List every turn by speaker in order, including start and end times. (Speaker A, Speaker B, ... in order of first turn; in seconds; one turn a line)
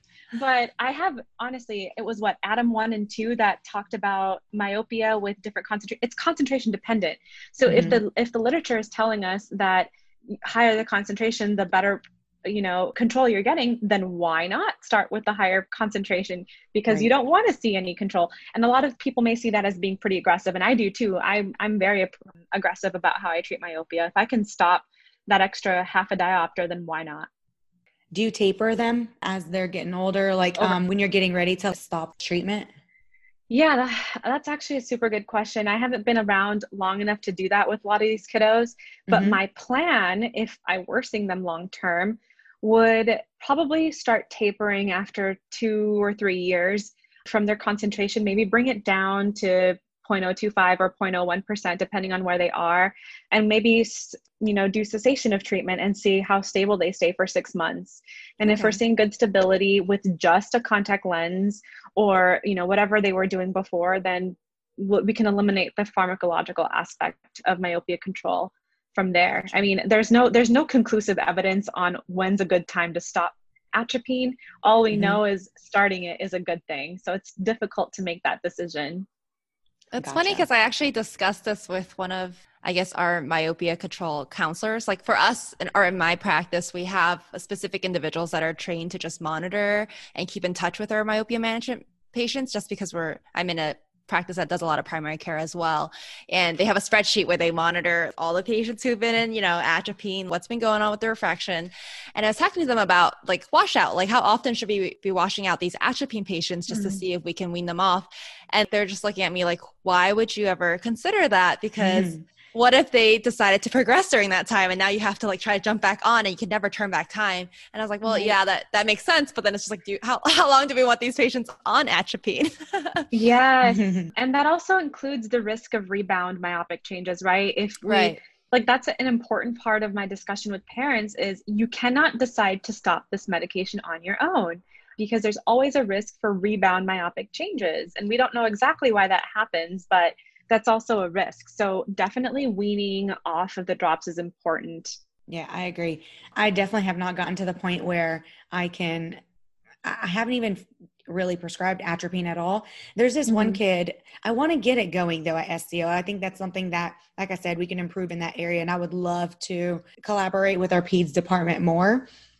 Speaker A: 0.3-27.3
Speaker B: 7.7-8.0
Speaker B: 28.1-32.7
Speaker A: 33.5-79.0
Speaker B: 39.1-39.4
Speaker C: 58.5-58.8
Speaker B: 74.9-75.2
Speaker C: 79.9-123.1
Speaker B: 80.0-80.5
Speaker A: 106.7-107.0
Speaker B: 111.8-112.2
Speaker A: 118.0-118.3
Speaker A: 123.1-145.0
Speaker B: 123.7-124.1
Speaker C: 127.8-128.2
Speaker B: 145.3-149.2
Speaker B: 149.8-162.1
Speaker A: 153.3-153.6